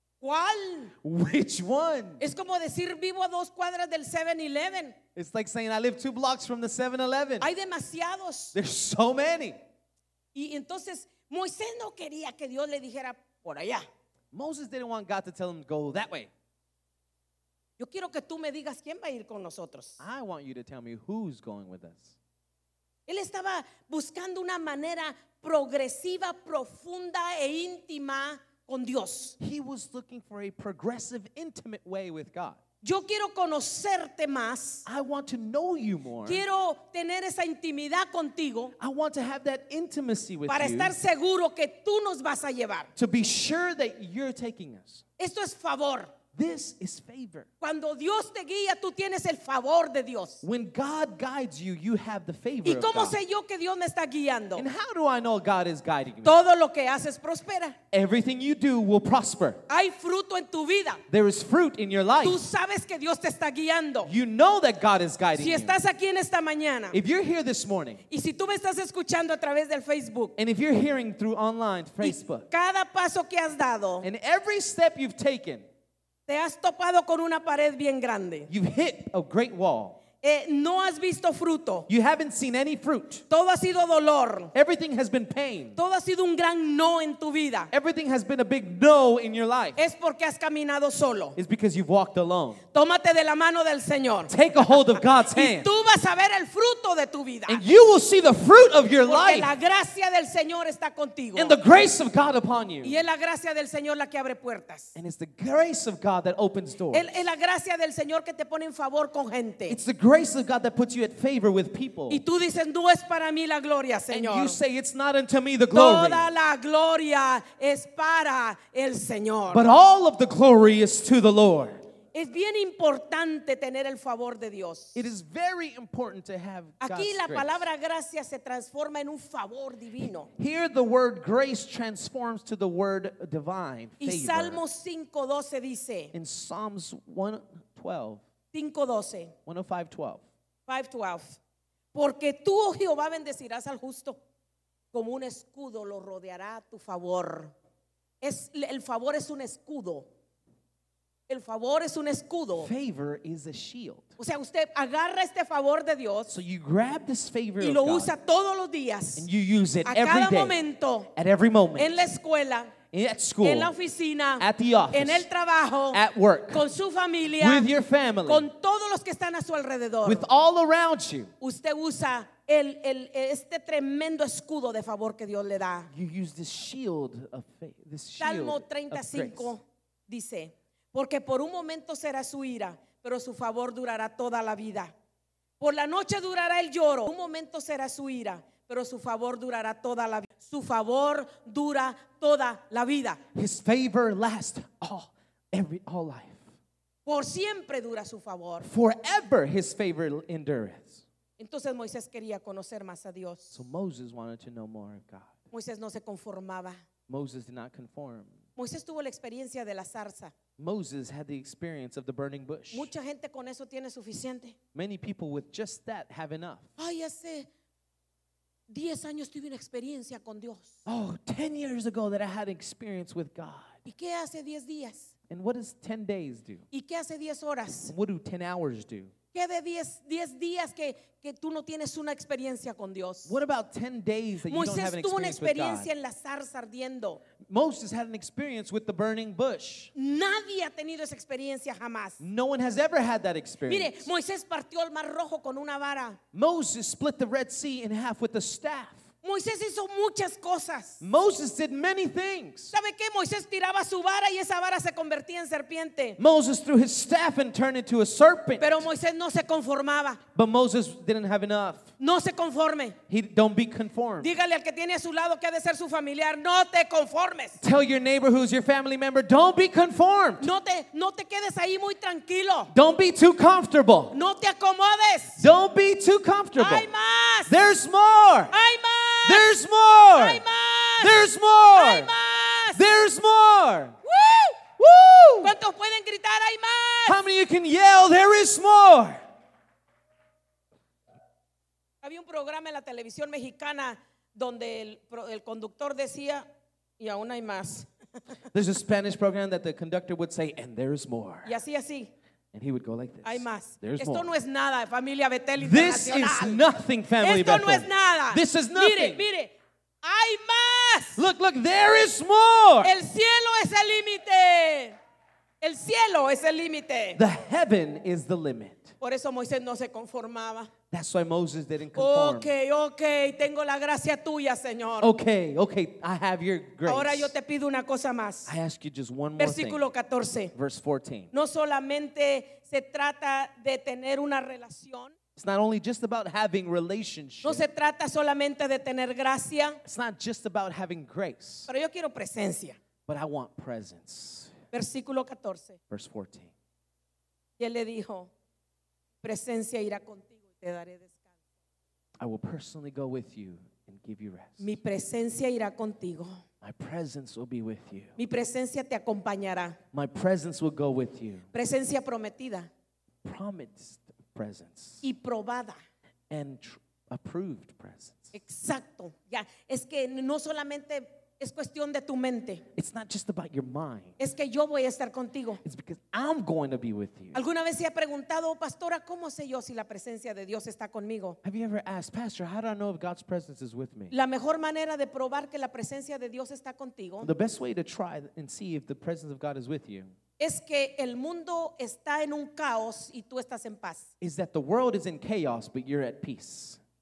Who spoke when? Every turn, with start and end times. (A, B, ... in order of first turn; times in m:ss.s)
0:00.2-0:00.9 A
0:01.0-0:02.2 B
0:02.2-0:05.0 A
0:05.2-0:07.5 B
0:07.4-0:08.6 A
0:08.5-0:09.6 B
0:10.3-0:13.8 A
0:14.3-0:16.3 B
0:17.8-0:20.0 A
0:20.0-0:22.2 B
0:23.1-0:29.4 A
0:29.4-0:32.6 B
0:32.8-0:34.9 A
0:34.9-0:36.4 B
0:36.2-0:38.8 A
0:38.8-0:41.0 B
0:40.5-0:42.9 A
0:43.0-0:45.0 B
0:45.2-0:46.1 A
0:46.3-0:47.5 B
0:47.6-0:50.4 A
0:50.4-0:53.2 B
0:52.6-0:54.7 A
0:54.6-0:56.4 B
0:56.2-0:57.8 A
0:57.9-0:59.6 B
0:59.7-1:01.0 A
1:01.1-1:02.4 B
1:02.2-1:04.1 A
1:04.1-1:05.8 B
1:05.4-1:07.0 A
1:06.9-1:08.0 B
1:08.1-1:10.4 A
1:10.4-1:12.5 B
1:12.0-1:14.1 A
1:14.0-1:15.7 B
1:16.3-1:18.5 A
1:18.5-1:20.0 B
1:20.2-1:21.9 A
1:21.9-1:23.2 B
1:23.3-1:24.5 A
1:24.5-1:25.8 B
1:25.8-1:27.7 A
1:27.7-1:29.8 B
1:29.8-1:31.4 A
1:31.4-1:32.6 B
1:32.7-1:37.6 A
1:34.3-1:35.7 B
1:37.5-1:39.5 B
1:39.0-1:41.6 A
1:41.4-1:43.0 B
1:42.8-1:44.9 A
1:45.0-1:47.1 B
1:46.9-1:49.8 A
1:49.7-1:52.2 B
1:52.1-1:54.6 A
1:54.1-1:56.3 B
1:55.7-1:59.7 A
1:59.5-2:01.8 B
2:02.1-2:05.1 A
2:05.0-2:07.7 B
2:06.8-2:10.3 A
2:10.3-2:14.6 B
2:14.0-2:16.1 A
2:16.1-2:18.2 B
2:18.5-2:19.3 A
2:19.5-2:20.2 B
2:20.7-2:21.4 A
2:21.9-2:24.2 A
2:24.9-2:27.5 A
2:28.2-2:30.1 A
2:31.3-2:32.7 A
2:32.6-2:34.1 B
2:34.2-2:36.3 A
2:36.3-2:38.1 B
2:37.6-2:39.3 A
2:39.2-2:40.6 B
2:39.8-2:41.1 A
2:41.2-2:42.0 B
2:41.8-2:42.7 A
2:42.9-2:43.7 B
2:43.4-2:47.7 A
2:44.4-2:45.3 B
2:45.9-2:46.6 B
2:47.4-2:48.5 B
2:48.3-2:50.3 A
2:50.0-2:51.3 B
2:51.4-2:55.9 A
2:55.9-2:59.5 B
2:58.2-3:04.9 A
3:05.6-3:13.2 A
3:13.4-3:16.5 B
3:17.1-3:18.7 A
3:18.6-3:21.0 B
3:21.4-3:23.6 A
3:23.5-3:25.4 B
3:25.5-3:26.8 A
3:27.1-3:28.4 B
3:28.6-3:30.3 A
3:30.6-3:32.9 B
3:32.7-3:34.6 A
3:34.7-3:36.7 B
3:36.8-3:37.5 A
3:38.7-3:40.8 A
3:40.9-3:43.8 B
3:43.9-3:45.1 A
3:45.3-3:46.7 B
3:46.7-3:47.9 A
3:47.9-3:49.1 B
3:49.3-3:53.4 A
3:53.3-3:55.9 B
3:54.5-3:57.2 A
3:57.4-3:59.9 B
4:00.0-4:02.2 A
4:02.2-4:04.1 B
4:03.7-4:06.2 A
4:06.3-4:09.0 B
4:09.2-4:11.0 A
4:11.0-4:12.7 B
4:12.7-4:16.2 A
4:16.2-4:18.9 B
4:18.6-4:20.2 A
4:20.4-4:21.9 B
4:22.0-4:23.0 A
4:23.1-4:24.3 B
4:24.2-4:27.6 A
4:27.6-4:30.5 B
4:30.4-4:32.7 A
4:32.7-4:34.2 B
4:34.1-4:35.5 A
4:35.4-4:36.9 B
4:36.6-4:37.5 A
4:37.5-4:38.5 B
4:38.5-4:39.5 A
4:39.2-4:40.4 B
4:40.1-4:42.8 A
4:41.0-4:42.1 B
4:42.7-4:44.0 B
4:44.1-4:44.6 A
4:44.8-4:45.6 B
4:45.4-4:47.2 A
4:47.1-4:49.2 B
4:52.0-4:56.5 A
4:57.0-4:57.9 A
4:58.5-5:01.6 B
5:01.4-5:02.1 A
5:02.5-5:04.3 B
5:03.2-5:06.6 A
5:05.6-5:09.3 B
5:07.2-5:11.2 A
5:11.2-5:12.9 B
5:12.8-5:15.0 A
5:15.6-5:17.2 A
5:17.2-5:18.9 B
5:19.0-5:20.7 A
5:20.9-5:22.5 B
5:21.9-5:25.1 A
5:25.0-5:27.3 B
5:26.9-5:28.5 A
5:28.5-5:29.8 B
5:29.4-5:30.5 A
5:30.5-5:31.3 B
5:31.3-5:35.1 A
5:35.4-5:37.7 B
5:37.4-5:39.8 A
5:39.8-5:41.7 B
5:41.7-5:42.8 A
5:43.1-5:44.5 B
5:44.7-5:45.8 A
5:45.9-5:46.5 B
5:47.6-5:48.3 A
5:49.2-5:51.3 A
5:52.2-5:54.8 B
5:54.6-5:56.4 A
5:56.6-5:58.2 B
5:58.2-5:59.8 A
5:59.9-6:01.5 B
6:01.5-6:02.7 A
6:03.2-6:05.0 B
6:05.0-6:05.8 A
6:06.3-6:08.3 B
6:08.3-6:12.6 A
6:12.8-6:14.2 B
6:14.2-6:15.6 A
6:15.6-6:17.4 B
6:17.3-6:21.4 A
6:21.4-6:24.1 B
6:24.1-6:27.3 A
6:27.2-6:30.1 B
6:30.4-6:34.1 A
6:34.2-6:36.8 B